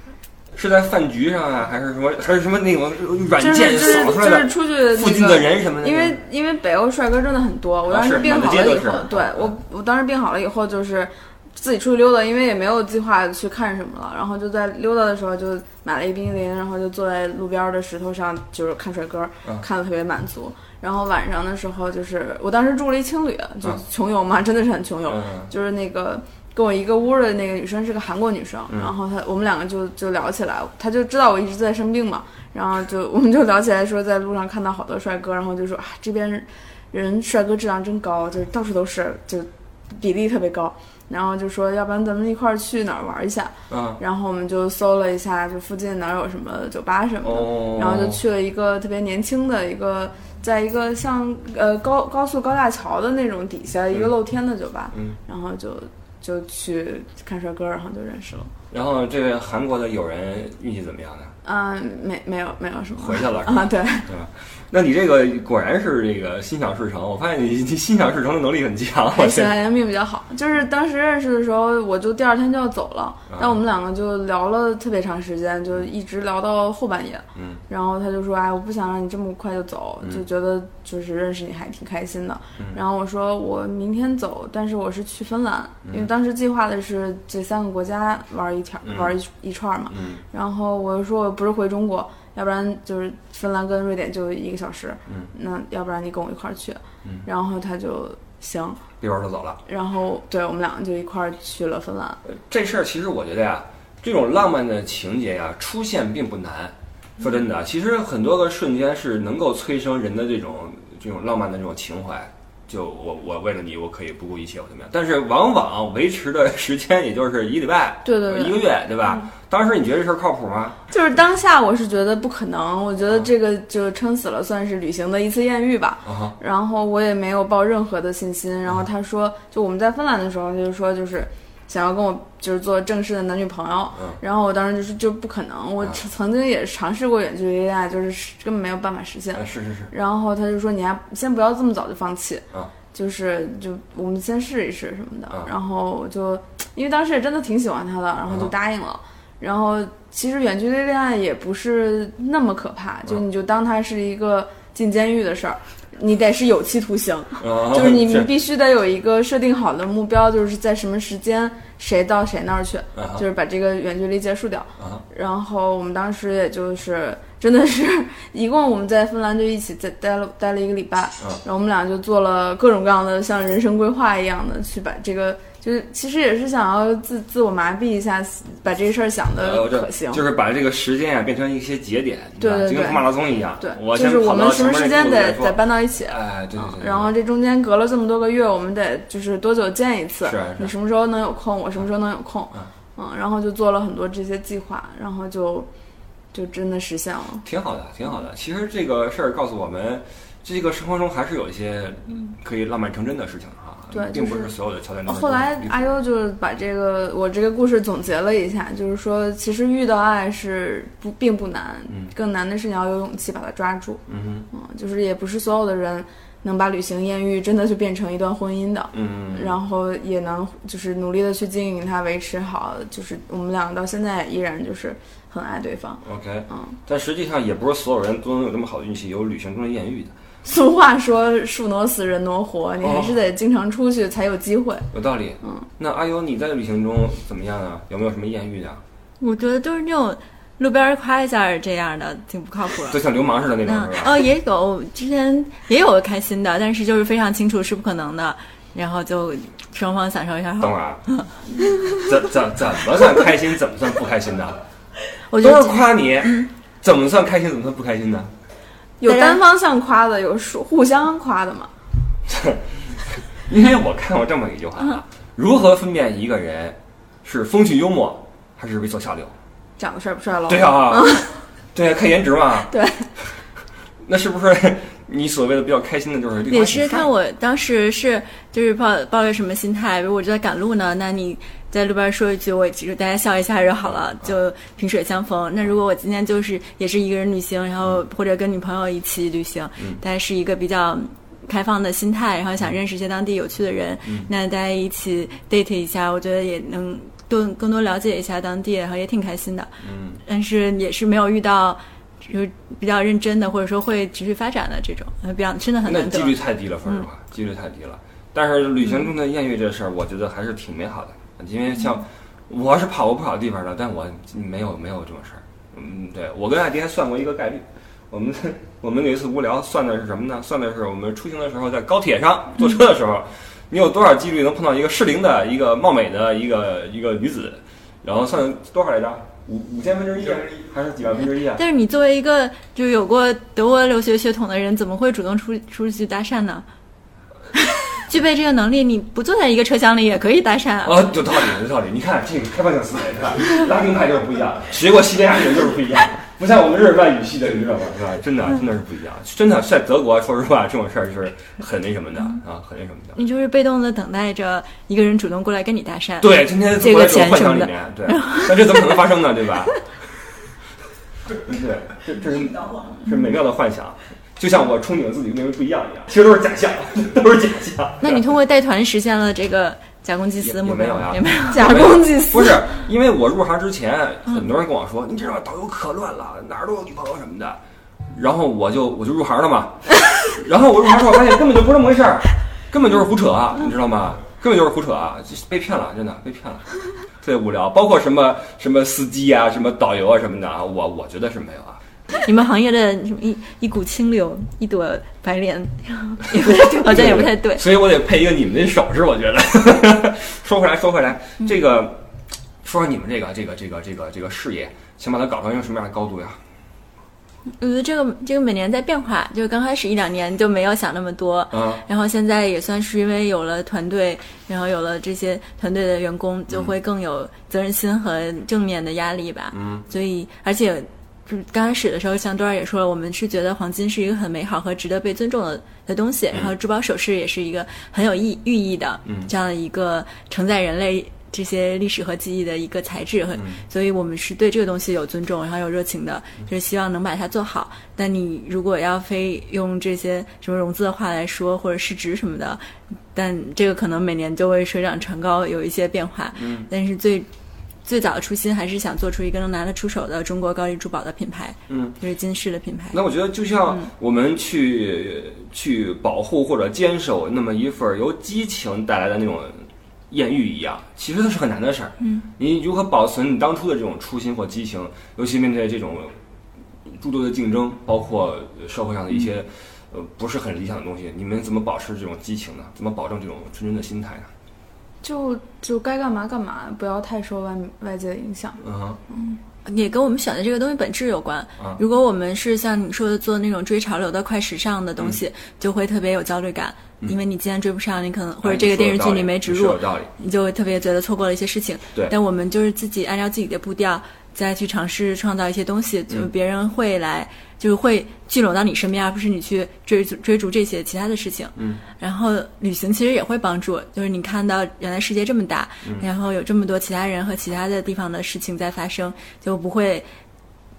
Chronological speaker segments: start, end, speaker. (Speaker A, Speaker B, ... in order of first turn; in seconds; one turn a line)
Speaker A: 0.5-6.2
Speaker B: 3.4-58.5
Speaker A: 7.9-9.6
Speaker A: 25.1-25.5
Speaker A: 43.7-44.0
Speaker A: 47.2-48.2
Speaker A: 58.7-61.3
Speaker B: 61.4-64.1
Speaker A: 63.0-69.5
Speaker B: 69.1-98.8
Speaker A: 73.3-73.6
Speaker A: 77.3-77.6
Speaker A: 88.8-89.2
Speaker A: 89.9-90.2
Speaker A: 99.0-99.6
Speaker B: 99.7-102.2
Speaker A: 102.2-120.8
Speaker B: 118.0-118.6
Speaker B: 120.9-180.2
Speaker A: 126.0-126.3
Speaker A: 139.3-139.9
Speaker A: 157.4-158.3
Speaker A: 162.9-163.2
Speaker A: 164.8-165.0
Speaker A: 179.4-187.1
Speaker B: 182.4-195.7
Speaker A: 190.2-190.7
Speaker B: 196.3-197.4
Speaker A: 197.4-205.9
Speaker B: 203.9-204.5
Speaker B: 205.0-226.8
Speaker A: 214.1-214.5
Speaker A: 218.9-219.6
Speaker A: 226.0-230.1
Speaker B: 230.4-234.9
Speaker A: 232.8-233.2
Speaker A: 234.9-238.8
Speaker B: 235.4-235.7
Speaker C: 239.2-243.0
Speaker A: 242.9-244.1
Speaker C: 243.6-251.3
Speaker A: 250.6-251.0
Speaker A: 252.0-254.6
Speaker C: 255.3-256.5
Speaker A: 255.4-258.3
Speaker B: 259.0-261.7
Speaker C: 259.0-259.4
Speaker A: 262.3-269.3
Speaker B: 269.8-271.3
Speaker A: 270.5-272.7
Speaker B: 272.7-273.1
Speaker A: 274.0-277.1
Speaker C: 276.5-306.4
Speaker A: 299.8-300.2
Speaker A: 305.8-331.6
Speaker C: 331.6-336.6
Speaker C: 338.0-341.1
Speaker A: 340.8-353.2
Speaker C: 353.1-359.0
Speaker A: 356.2-359.8
Speaker A: 361.3-368.2
Speaker C: 368.0-371.9
Speaker A: 370.4-377.6
Speaker B: 371.5-372.6
Speaker A: 378.1-386.7
Speaker A: 387.2-391.8
Speaker C: 392.2-397.6
Speaker A: 396.4-402.1
Speaker A: 402.6-406.4
Speaker C: 407.5-447.3
Speaker A: 411.5-411.8
Speaker A: 416.5-416.7
Speaker A: 419.5-419.9
Speaker A: 433.4-433.6
Speaker A: 446.4-446.7
Speaker C: 447.8-453.0
Speaker A: 451.7-452.0
Speaker A: 452.9-466.1
Speaker C: 462.0-462.3
Speaker A: 466.8-474.3
Speaker B: 475.0-478.6
Speaker A: 478.6-479.0
Speaker C: 479.2-510.1
Speaker A: 488.4-490.1
Speaker A: 501.6-501.8